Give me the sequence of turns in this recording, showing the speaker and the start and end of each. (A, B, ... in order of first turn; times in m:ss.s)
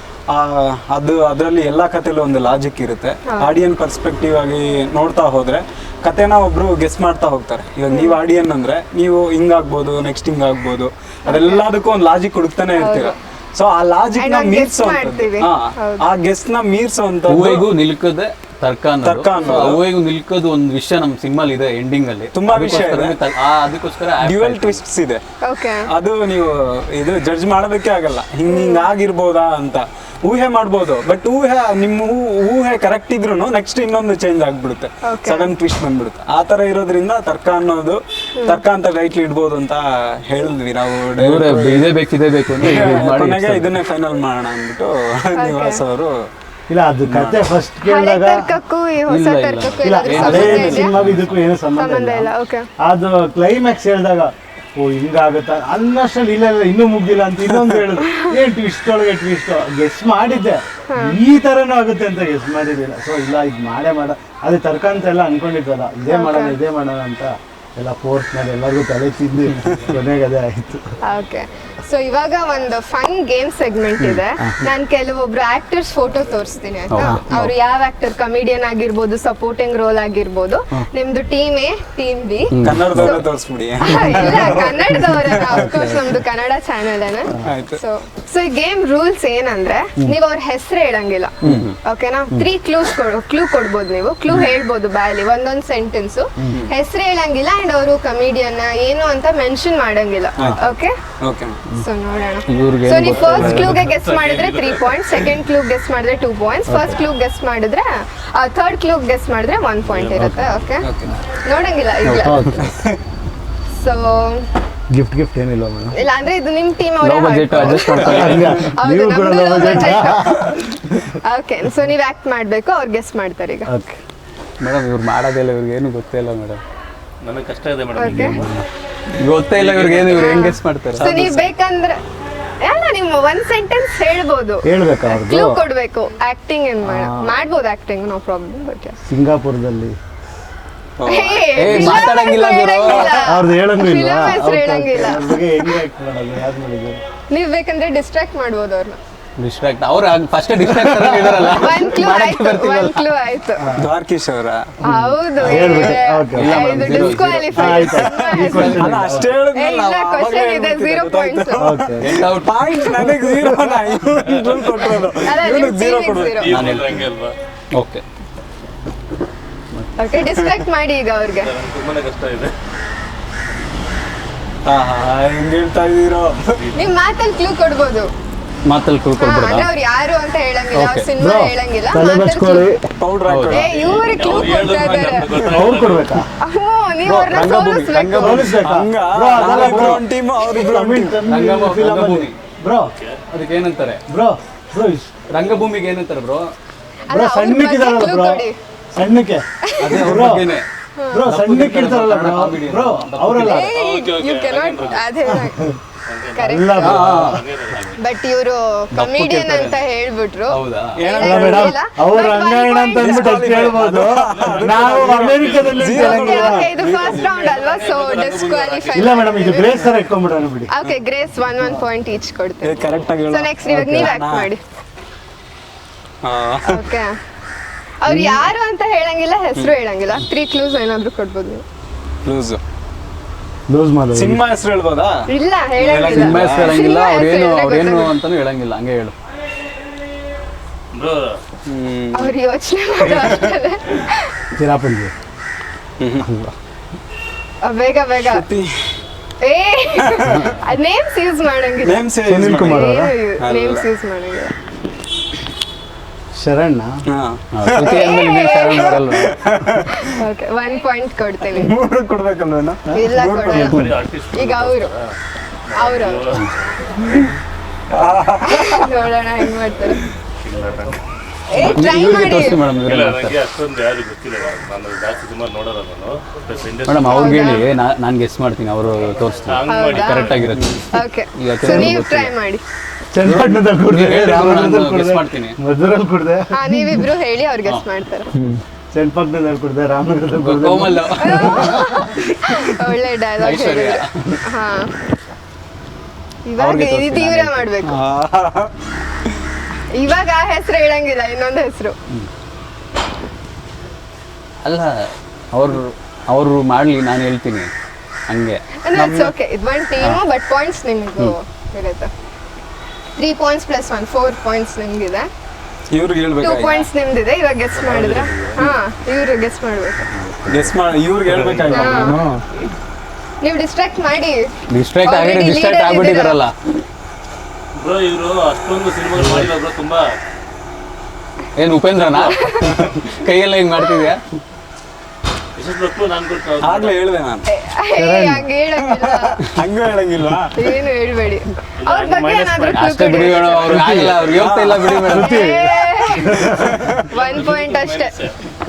0:00.3-0:17.7 A
0:03.3-0:03.5 B
0:07.9-0:08.2 B
0:11.3-0:11.6 B
0:12.8-0:13.2 B
0:14.2-0:16.1 B
0:17.3-0:24.8 C
0:19.0-0:19.8 A
0:19.4-0:19.8 B
0:22.3-0:23.2 A
0:24.2-0:25.2 A
0:25.4-0:25.9 B
0:25.9-0:41.8 A
0:28.5-0:28.8 B
0:35.0-0:35.5 B
0:41.2-0:43.7 C
0:42.6-0:46.3 A
0:45.4-0:45.8 B
0:46.7-0:48.5 D
0:47.1-0:47.5 A
0:47.8-0:51.0 B
0:49.1-0:51.4 C
0:49.8-1:10.9 D
0:50.2-0:50.8 A
0:51.7-0:52.7 B
0:57.5-0:57.9 A
0:58.0-0:58.4 B
1:00.9-1:01.2 B
1:06.1-1:06.6 B
1:11.0-1:23.2 B
1:14.4-1:14.6 D
1:16.9-1:17.5 C
1:17.0-1:17.3 D
1:22.5-1:23.1 C
1:22.6-1:25.8 A
1:23.8-1:41.0 B
1:25.5-1:25.9 D
1:27.4-1:27.8 A
1:31.4-1:31.8 C
1:41.2-1:41.6 A
1:41.7-1:50.9 B
1:42.5-1:43.8 C
1:43.1-1:45.3 E
1:46.7-1:47.0 D
1:49.8-1:50.4 E
1:50.8-1:51.2 A
1:51.4-1:52.7 B
1:52.0-1:52.5 C
1:52.2-1:52.6 D
1:52.6-1:53.0 A
1:53.8-1:54.5 B
1:54.9-1:56.0 D
1:56.0-2:00.6 B
1:57.0-1:58.6 C
1:58.0-2:01.2 D
2:01.2-2:03.7 B
2:03.7-2:04.0 D
2:04.6-2:06.6 C
2:07.2-2:08.5 E
2:08.0-2:08.4 B
2:08.1-2:08.6 D
2:09.2-2:11.5 C
2:09.6-2:11.1 E
2:10.1-2:12.0 B
2:12.6-2:19.0 B
2:14.6-2:15.6 D
2:16.8-2:17.4 D
2:19.1-2:20.0 D
2:21.0-2:22.2 A
2:21.1-2:25.8 B
2:21.6-2:23.2 C
2:23.2-2:27.0 D
2:27.3-2:29.0 B
2:29.4-2:33.0 C
2:30.6-2:31.6 D
2:31.5-2:33.7 B
2:33.8-2:34.8 A
2:34.8-2:41.6 B
2:34.9-2:39.3 D
2:35.4-2:35.9 A
2:36.4-2:39.1 C
2:38.0-2:46.5 A
2:41.6-2:42.1 D
2:42.0-2:42.6 C
2:42.7-2:43.2 B
2:44.6-2:46.5 B
2:46.4-2:47.3 E
2:46.5-2:47.0 C
2:47.8-2:48.0 C
2:50.0-2:51.5 B
2:50.4-2:50.6 A
2:51.4-2:52.5 E
2:54.7-2:56.6 A
2:56.6-2:56.9 E
2:56.8-2:58.1 B
2:58.7-2:59.7 C
2:59.2-3:02.7 B
3:00.7-3:01.1 C
3:01.2-3:02.8 D
3:03.0-3:04.4 A
3:03.3-3:03.6 C
3:03.5-3:05.5 B
3:03.5-3:06.1 E
3:05.4-3:06.3 D
3:06.4-3:08.6 B
3:07.0-3:11.2 A
3:08.2-3:12.9 D
3:11.3-3:12.4 C
3:12.9-3:13.2 E
3:13.3-3:14.0 C
3:14.1-3:15.2 D
3:15.3-3:16.5 C
3:17.1-3:18.6 B
3:17.1-3:20.5 D
3:19.7-3:20.1 B
3:19.8-3:20.7 C
3:21.0-3:21.2 B
3:21.1-3:23.7 D
3:21.2-3:23.7 C
3:23.4-3:25.6 B
3:23.5-3:25.0 E
3:25.3-3:25.8 D
3:26.1-3:27.9 E
3:26.4-3:27.1 B
3:26.4-3:27.2 D
3:26.8-3:28.0 C
3:28.0-3:33.6 B
3:28.9-3:29.8 C
3:30.5-3:31.0 C
3:31.0-3:31.8 A
3:31.2-3:36.7 D
3:33.0-3:37.3 A
3:34.1-3:35.8 E
3:35.9-3:39.9 B
3:36.8-3:39.7 E
3:39.0-3:40.7 D
3:40.7-3:44.6 B
3:42.6-3:44.5 A
3:43.7-3:44.2 D
3:46.2-3:46.9 A
3:46.7-3:47.2 B
3:48.0-3:51.6 B
3:48.1-3:48.4 D
3:52.2-3:52.6 A
3:53.7-3:54.4 D
3:54.1-3:55.2 A
3:55.3-3:58.2 B
3:55.8-3:56.8 A
3:56.0-3:59.1 C
4:00.9-4:01.4 E
4:01.7-4:02.4 A
4:02.1-4:04.3 B
4:03.1-4:03.5 A
4:04.6-4:05.1 D
4:06.0-4:06.3 A
4:06.2-4:06.5 D
4:07.6-4:08.5 B
4:08.3-4:08.9 A
4:09.4-4:14.5 B
4:10.1-4:10.5 A
4:11.8-4:13.9 A
4:12.3-4:13.1 D
4:16.3-4:17.0 D
4:17.1-4:18.2 A
4:17.5-4:19.3 C
4:17.8-4:19.0 B
4:19.0-4:20.0 A
4:19.9-4:21.8 B
4:21.5-4:23.9 A
4:22.9-4:23.7 D
4:22.9-4:23.8 B
4:23.6-4:25.2 E
4:24.3-4:24.9 B
4:25.7-4:27.3 E
4:25.8-4:26.4 B
4:27.9-4:29.0 A
4:28.4-4:30.0 B
4:30.4-4:31.0 E
4:31.5-4:32.6 B
4:31.6-4:33.4 C
4:32.8-4:37.6 E
4:36.9-4:42.3 C
4:37.1-4:37.7 B
4:39.5-4:40.5 E
4:39.7-4:40.4 B
4:40.9-4:42.6 B
4:41.6-4:42.0 D
4:43.1-4:47.0 D
4:43.3-4:45.6 C
4:46.5-4:48.3 B
4:48.9-4:52.1 D
4:50.4-4:51.9 C
4:51.2-4:54.9 B
4:53.4-4:54.4 C
4:56.5-4:58.0 B
4:56.6-4:57.7 C
4:57.8-4:58.9 A
4:59.9-5:02.0 B
5:04.6-5:07.7 C
5:08.3-5:08.6 C
5:08.8-5:12.1 B
5:08.9-5:09.3 A
5:13.2-5:15.3 B
5:15.9-5:16.8 A
5:16.4-5:20.1 B
5:17.8-5:18.6 E
5:20.1-5:20.8 C
5:20.5-5:22.4 A
5:21.3-5:22.2 E
5:21.7-5:22.1 B
5:21.9-5:22.2 C
5:23.4-5:24.5 B
5:24.7-5:26.5 C
5:25.0-5:26.4 B
5:27.8-5:30.1 E
5:31.6-5:34.2 C
5:32.1-5:32.8 E
5:32.4-5:32.7 B
5:33.8-5:34.1 B
5:35.6-5:37.0 E
5:36.6-5:37.5 A
5:37.5-5:39.4 B
5:38.0-5:38.4 D
5:38.8-5:40.7 A
5:40.6-5:43.8 B
5:41.8-5:44.5 E
5:42.7-5:45.5 C
5:43.8-5:44.1 D
5:44.3-5:45.3 A
5:45.1-5:46.9 D
5:45.2-5:48.2 B
5:46.4-5:47.1 A
5:47.1-5:48.4 E